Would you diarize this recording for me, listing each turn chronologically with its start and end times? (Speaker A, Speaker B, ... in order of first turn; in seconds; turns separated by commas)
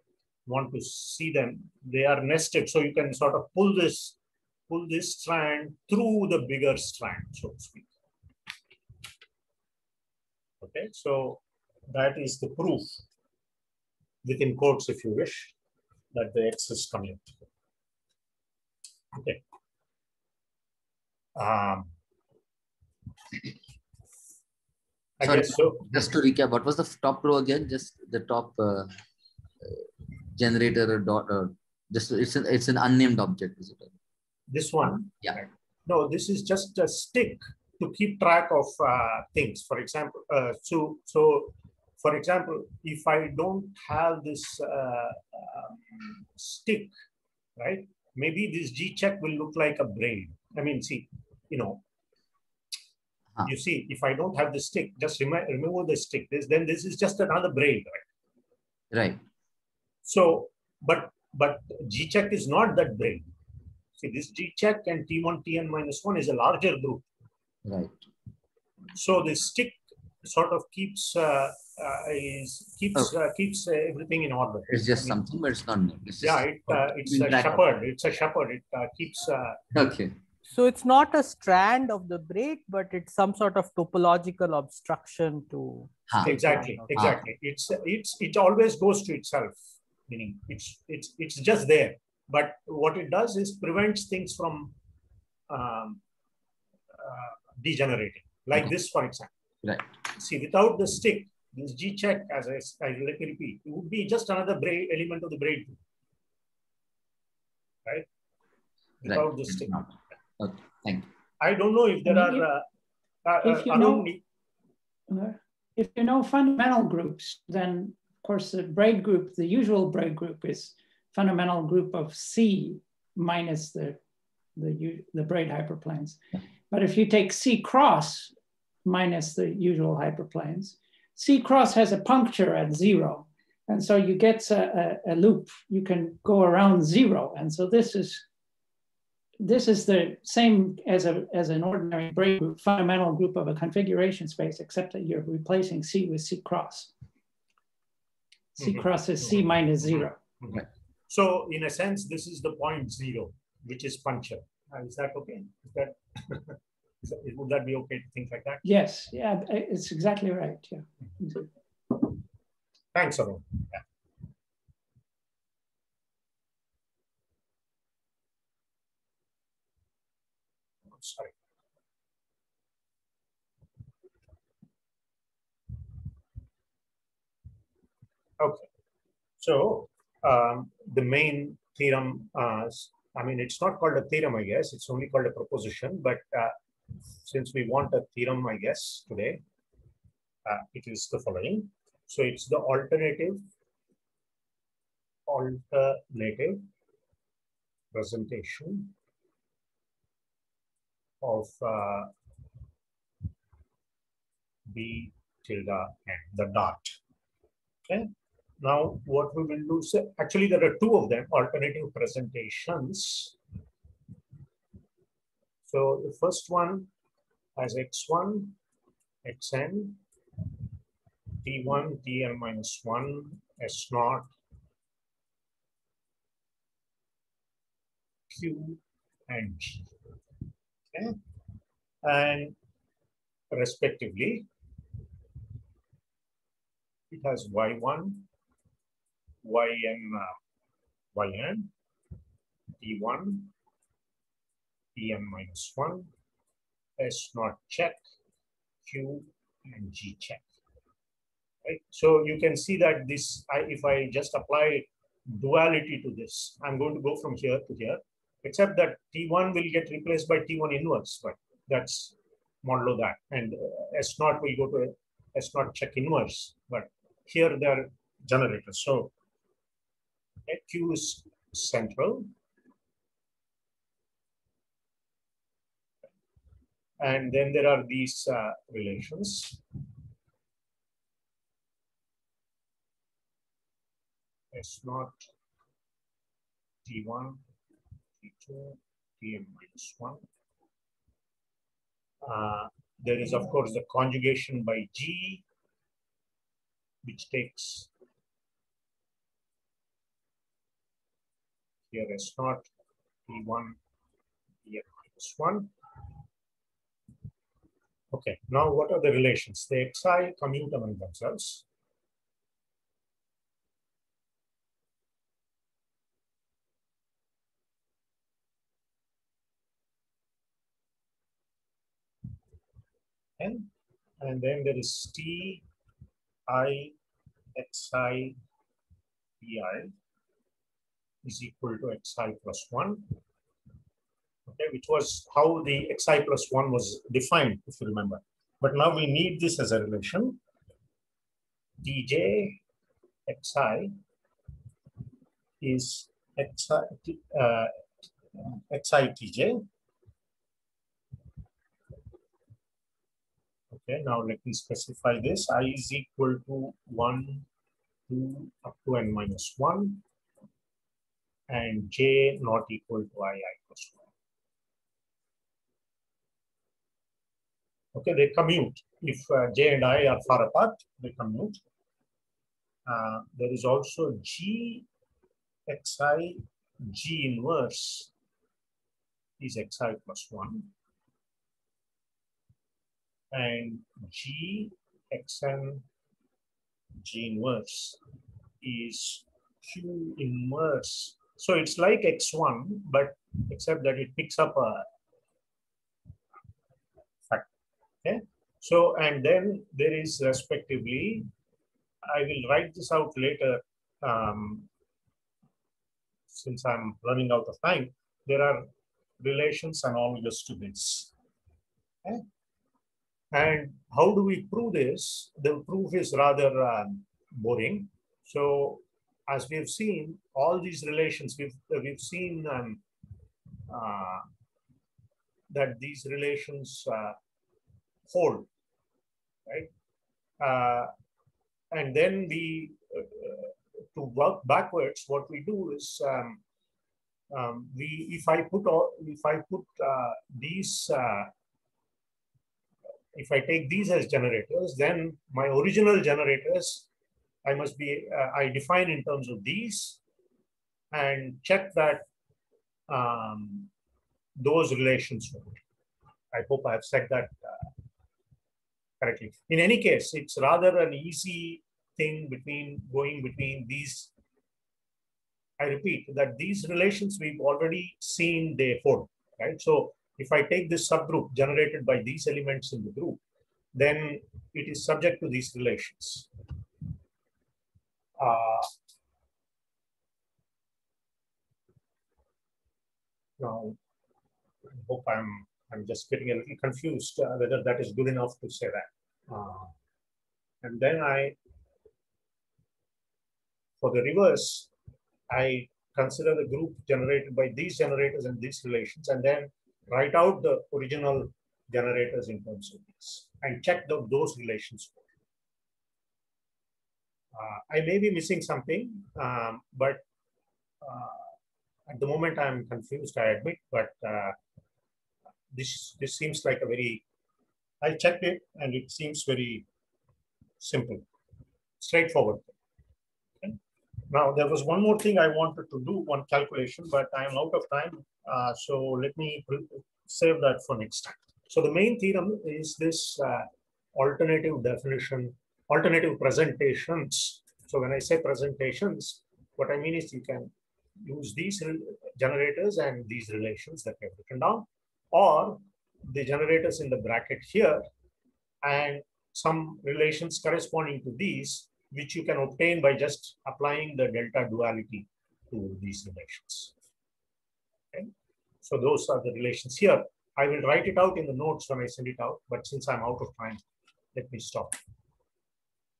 Speaker A: 0.5-4.2, Speaker A: 4.7-7.9, Speaker A: 10.6-13.0, Speaker A: 14.2-15.5, Speaker A: 16.1-17.4, Speaker A: 19.1-19.4, Speaker A: 21.4-21.9, Speaker A: 25.2-26.0, Speaker B: 25.2-28.9, Speaker B: 29.6-33.9, Speaker A: 34.5-46.9, Speaker A: 47.6-51.8, Speaker A: 53.4-58.0, Speaker B: 58.9-59.2, Speaker A: 60.0-63.3, Speaker A: 64.0-67.1, Speaker B: 67.6-68.0, Speaker A: 68.9-75.2, Speaker B: 74.7-77.6, Speaker A: 76.2-79.6, Speaker B: 79.7-80.2, Speaker C: 80.5-86.9, Speaker B: 86.1-86.4, Speaker A: 86.2-89.5, Speaker B: 86.9-87.2, Speaker A: 90.1-94.7, Speaker A: 95.5-96.0, Speaker A: 96.9-99.3, Speaker A: 100.1-105.8, Speaker A: 109.0-109.8, Speaker B: 109.0-111.1, Speaker A: 111.4-112.6, Speaker D: 112.0-112.5, Speaker A: 113.2-114.2, Speaker D: 113.4-114.1, Speaker D: 115.1-124.0, Speaker D: 124.5-126.2, Speaker D: 126.7-128.3, Speaker D: 128.8-138.2, Speaker D: 139.4-146.9, Speaker D: 148.5-150.2, Speaker A: 148.6-158.6, Speaker D: 158.6-161.5, Speaker A: 162.9-163.8, Speaker A: 170.9-171.3, Speaker A: 178.4-178.7, Speaker A: 179.4-186.6, Speaker A: 187.2-189.4, Speaker A: 190.4-193.4, Speaker A: 195.3-196.6, Speaker A: 197.9-198.9, Speaker A: 201.2-202.1, Speaker A: 204.7-206.9, Speaker A: 208.6-213.3, Speaker A: 215.6-216.9, Speaker A: 217.6-218.6, Speaker A: 219.2-220.0, Speaker A: 221.4-224.3, Speaker A: 228.3-229.9, Speaker A: 232.0-232.6, Speaker A: 233.5-234.5, Speaker A: 237.1-238.3, Speaker A: 239.4-240.3, Speaker A: 241.1-241.7, Speaker A: 242.8-243.5, Speaker A: 244.9-246.1, Speaker A: 247.0-248.0, Speaker A: 248.8-250.4, Speaker A: 251.6-269.1, Speaker A: 270.5-272.3, Speaker A: 277.0-279.6, Speaker A: 284.5-285.3, Speaker A: 286.8-287.4, Speaker A: 288.2-290.2, Speaker A: 292.2-295.4, Speaker A: 297.0-297.9, Speaker A: 301.9-302.7, Speaker A: 303.3-303.8, Speaker A: 304.6-305.7, Speaker A: 308.1-311.6, Speaker A: 323.4-323.7, Speaker A: 324.2-325.6, Speaker A: 326.5-326.9, Speaker A: 327.5-328.4, Speaker A: 329.4-329.9, Speaker A: 331.2-333.1, Speaker A: 334.5-340.4, Speaker A: 341.8-342.6, Speaker A: 343.3-343.9, Speaker A: 345.6-347.7, Speaker A: 348.3-349.6, Speaker A: 353.7-357.4, Speaker A: 358.1-360.0, Speaker A: 361.5-364.1, Speaker A: 367.9-371.6, Speaker A: 372.9-374.9, Speaker A: 375.7-378.1, Speaker A: 379.4-380.7, Speaker A: 383.3-385.9, Speaker A: 387.0-388.0, Speaker A: 388.6-394.9, Speaker A: 398.0-401.3, Speaker A: 402.0-404.7, Speaker A: 406.3-408.7, Speaker A: 409.2-411.1, Speaker A: 413.3-422.8, Speaker A: 423.7-424.2, Speaker A: 425.5-427.1, Speaker A: 428.1-428.5, Speaker A: 430.4-430.9, Speaker A: 431.7-436.4, Speaker A: 437.3-441.3, Speaker A: 443.1-446.9, Speaker A: 447.4-450.0, Speaker A: 450.9-452.0, Speaker A: 452.9-453.7, Speaker A: 454.4-455.6, Speaker A: 456.3-457.7, Speaker A: 459.0-464.1, Speaker A: 465.6-473.2, Speaker A: 473.7-476.3, Speaker A: 478.2-478.7, Speaker A: 483.4-483.8, Speaker A: 484.7-489.7, Speaker A: 490.6-491.4, Speaker A: 493.8-494.7, Speaker A: 495.3-505.0, Speaker A: 507.3-510.0, Speaker A: 510.8-511.3, Speaker A: 511.9-514.4, Speaker A: 515.5-517.0, Speaker A: 517.8-519.6, Speaker A: 520.6-521.0, Speaker A: 521.8-522.5, Speaker A: 524.1-547.8, Speaker A: 548.6-556.7, Speaker A: 558.6-563.6, Speaker A: 564.1-564.8